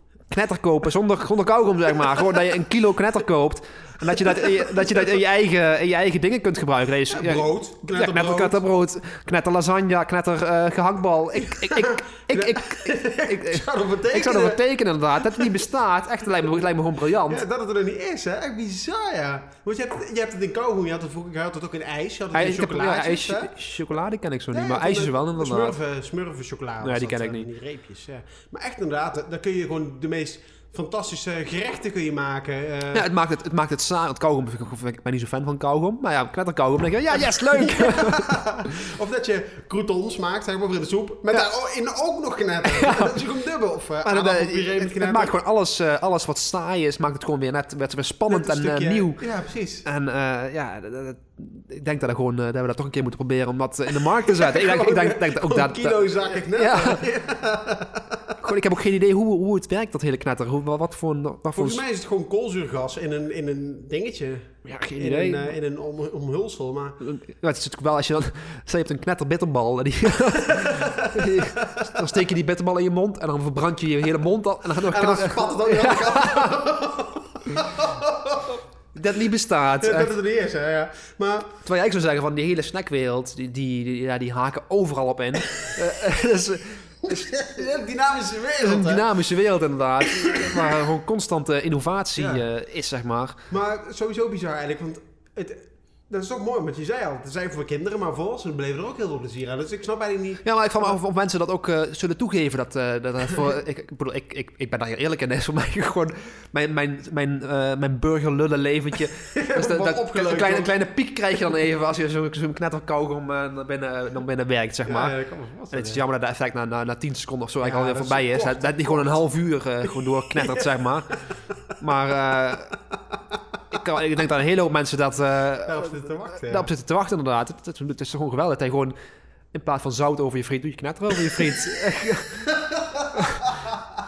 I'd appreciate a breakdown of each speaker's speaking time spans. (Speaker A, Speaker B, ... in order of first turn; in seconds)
Speaker A: 0.3-17.4, 22.3-25.8, 26.8-27.5, 32.9-38.4, 42.6-43.1, 44.0-49.2, 49.9-57.0, 58.4-61.8, 64.7-65.5, 67.0-76.5, 78.9-80.1, 81.6-87.2, 88.6-93.4, 100.4-115.2, 115.7-121.1, 121.8-122.7, 123.7-128.9, 129.5-132.4
Speaker B: 7.1-8.6, 11.4-14.6, 15.2-15.6, 17.3-23.5, 24.5-33.1, 37.1-45.4, 48.3-49.9, 54.1-58.3, 61.5-67.0, 70.5-71.9, 74.9-78.6, 79.8-81.6, 87.1-89.1, 90.3-90.7, 92.2-92.5, 93.5-101.0, 109.3-110.8, 114.9-116.0, 117.6-119.2, 125.7-126.7, 132.5-133.6